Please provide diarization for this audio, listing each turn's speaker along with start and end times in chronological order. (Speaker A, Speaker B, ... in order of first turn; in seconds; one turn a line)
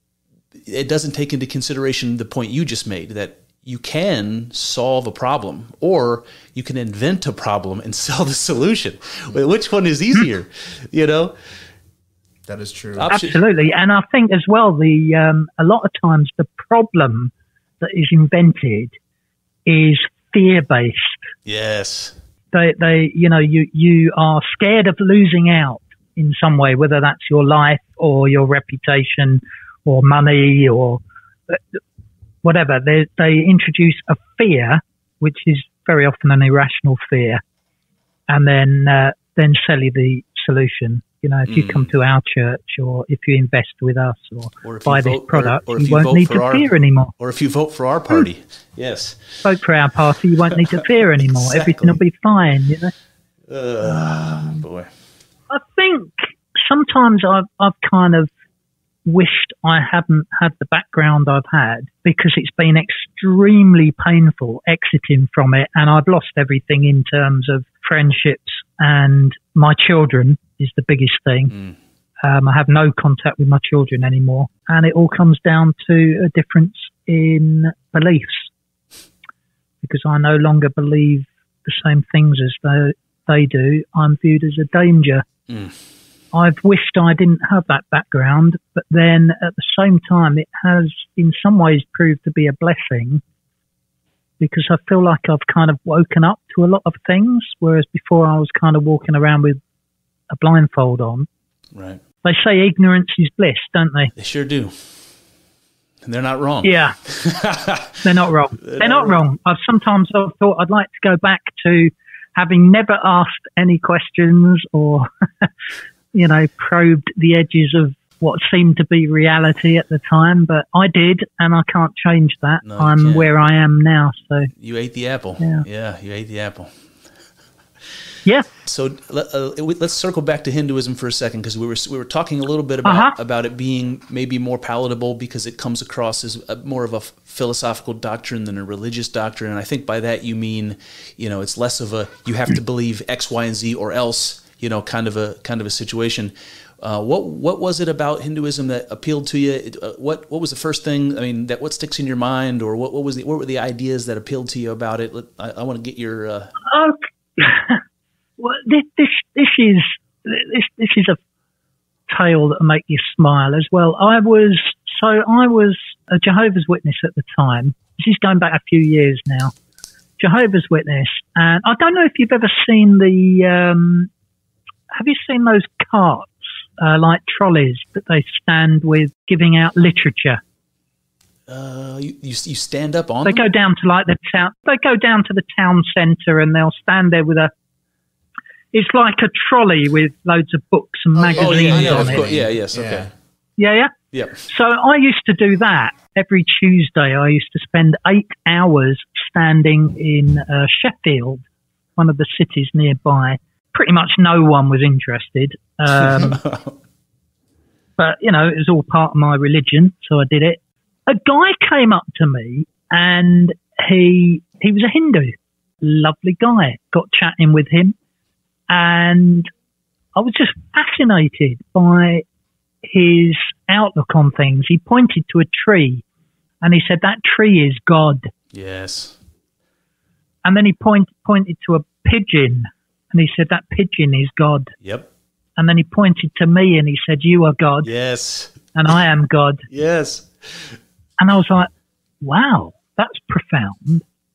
Speaker A: 0.7-11.4
Speaker B: 12.5-13.1
Speaker A: 12.9-13.4
Speaker C: 13.1-18.9
Speaker C: 19.7-21.3
Speaker A: 21.5-22.1
Speaker C: 22.5-31.6
Speaker C: 32.4-37.4
Speaker C: 38.3-47.1
Speaker A: 41.5-41.9
Speaker A: 44.6-49.4
Speaker C: 49.4-52.9
Speaker A: 51.2-52.0
Speaker A: 53.5-54.9
Speaker C: 53.9-54.6
Speaker C: 55.5-58.3
Speaker C: 59.1-71.5
Speaker C: 72.2-78.5
Speaker C: 79.8-85.3
Speaker A: 85.5-85.8
Speaker C: 86.3-93.2
Speaker C: 94.4-99.6
Speaker C: 100.3-101.3
Speaker A: 101.7-102.0
Speaker C: 102.2-104.1
Speaker A: 104.2-104.9
Speaker A: 106.0-108.0
Speaker C: 106.6-107.0
Speaker C: 108.0-115.5
Speaker A: 108.6-109.2
Speaker C: 116.1-124.5
Speaker A: 122.7-123.3
Speaker A: 124.6-126.7
Speaker A: 128.7-156.5
Speaker C: 132.8-133.2
Speaker C: 156.7-157.8
Speaker C: 158.4-161.2
Speaker C: 162.1-169.5
Speaker C: 170.2-174.1
Speaker C: 174.9-180.4
Speaker A: 181.5-183.4
Speaker C: 183.2-187.5
Speaker C: 188.7-192.2
Speaker B: 191.2-193.1
Speaker A: 191.4-193.1
Speaker C: 193.6-193.9
Speaker A: 194.1-194.5
Speaker C: 194.5-201.4
Speaker C: 202.0-206.4
Speaker A: 206.1-206.8
Speaker C: 208.0-217.9
Speaker C: 218.7-219.5
Speaker C: 220.2-222.2
Speaker C: 222.8-226.0
Speaker C: 226.6-228.3
Speaker A: 228.5-229.2
Speaker C: 230.4-234.7
Speaker C: 235.6-237.9
Speaker A: 237.8-238.6
Speaker C: 238.7-239.7
Speaker A: 239.7-240.8
Speaker C: 241.2-241.7
Speaker C: 242.2-244.0